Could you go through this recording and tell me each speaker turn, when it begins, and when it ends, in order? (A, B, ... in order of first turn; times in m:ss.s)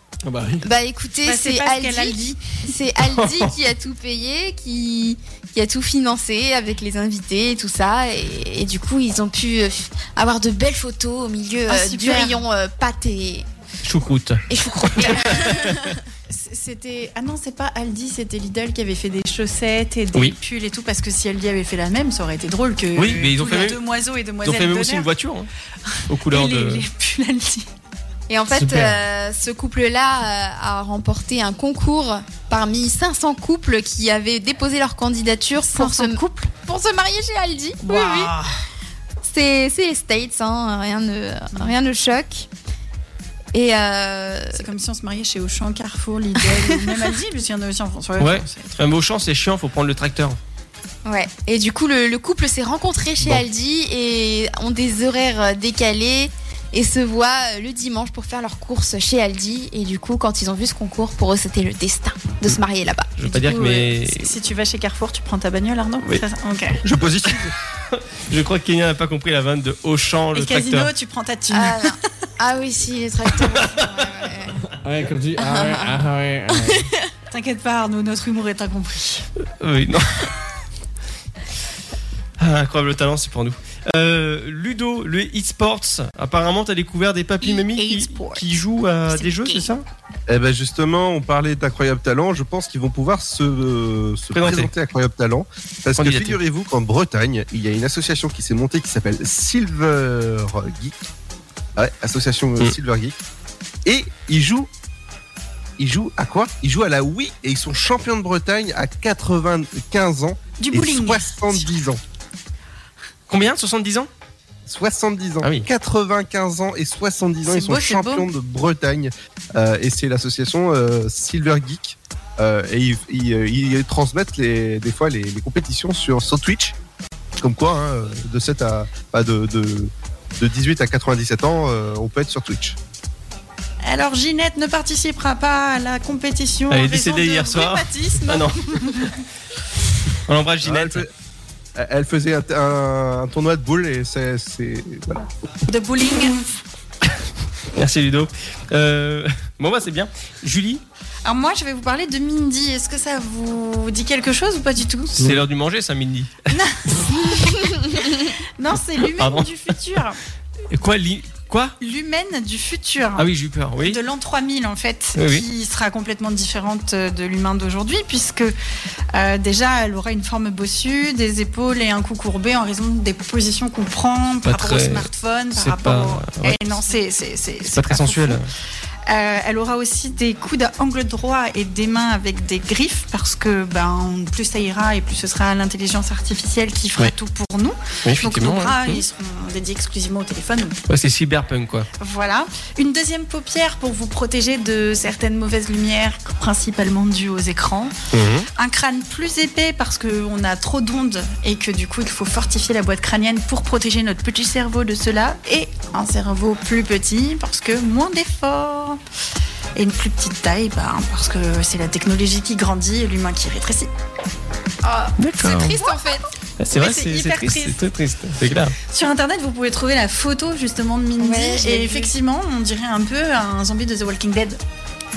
0:00.2-0:00.6 A
0:00.6-0:13.5 B
0:01.2-0:02.4 C
0:03.0-0:03.5 D
0:11.7-0:12.4 C
0:13.8-0:15.8 D
0:14.5-0:16.0 B
0:16.3-0:25.1 C
0:23.0-0:23.8 D
0:24.4-0:25.5 D
0:26.0-0:27.7 C
0:26.1-0:26.8 D
0:28.3-0:38.3 B
0:28.5-0:29.0 A
0:35.7-0:36.5 C
0:37.8-0:38.5 C
0:39.2-0:42.5 B
0:43.5-0:44.6 B
0:44.5-0:48.8 C
0:46.6-0:47.0 B
0:48.2-0:50.4 D
0:51.0-1:03.6 B
1:03.2-1:04.3 D
1:03.3-1:06.8 C
1:06.8-1:07.5 E
1:07.9-1:10.9 D
1:10.3-1:12.0 C
1:11.5-1:14.7 B
1:14.8-1:16.9 A
1:15.4-1:16.0 B
1:16.5-1:17.1 B
1:17.3-1:19.3 C
1:19.6-1:20.3 D
1:22.4-1:29.8 D
1:27.4-1:28.4 C
1:29.2-1:29.6 B
1:30.3-1:41.1 E
1:34.4-1:34.7 D
1:36.0-1:36.4 D
1:41.8-1:43.2 E
1:43.8-1:44.7 E
1:45.8-1:52.0 E
1:50.6-1:51.7 C
1:53.3-1:54.1 D
1:54.7-2:06.8 E
1:57.5-1:58.3 C
2:07.4-2:12.8 E
2:13.8-2:19.2 C
2:16.7-2:18.6 D
2:20.3-2:21.1 D
2:20.6-2:21.1 E
2:21.8-2:25.3 E
2:25.7-2:26.5 C
2:27.8-2:30.8 D
2:31.2-2:35.3 C
2:35.2-2:36.3 D
2:36.5-2:36.8 C
2:37.3-2:38.3 B
2:38.6-2:40.2 C
2:39.2-2:39.5 D
2:40.7-2:41.8 D
2:41.8-2:43.3 C
2:43.2-2:44.0 D
2:43.8-2:48.6 C
2:45.2-2:45.4 D
2:49.1-2:58.4 C
2:54.4-2:56.8 D
2:57.8-2:58.5 D
2:59.1-3:10.8 C
3:08.0-3:09.0 D
3:10.9-3:11.9 D
3:12.0-3:18.0 C
3:18.1-3:18.5 D
3:18.6-3:29.0 C
3:29.8-3:33.9 C
3:34.8-3:36.2 B
3:35.2-3:35.8 D
3:36.6-3:38.8 D
3:36.7-3:37.8 C
3:38.9-3:44.6 C
3:41.2-3:42.1 B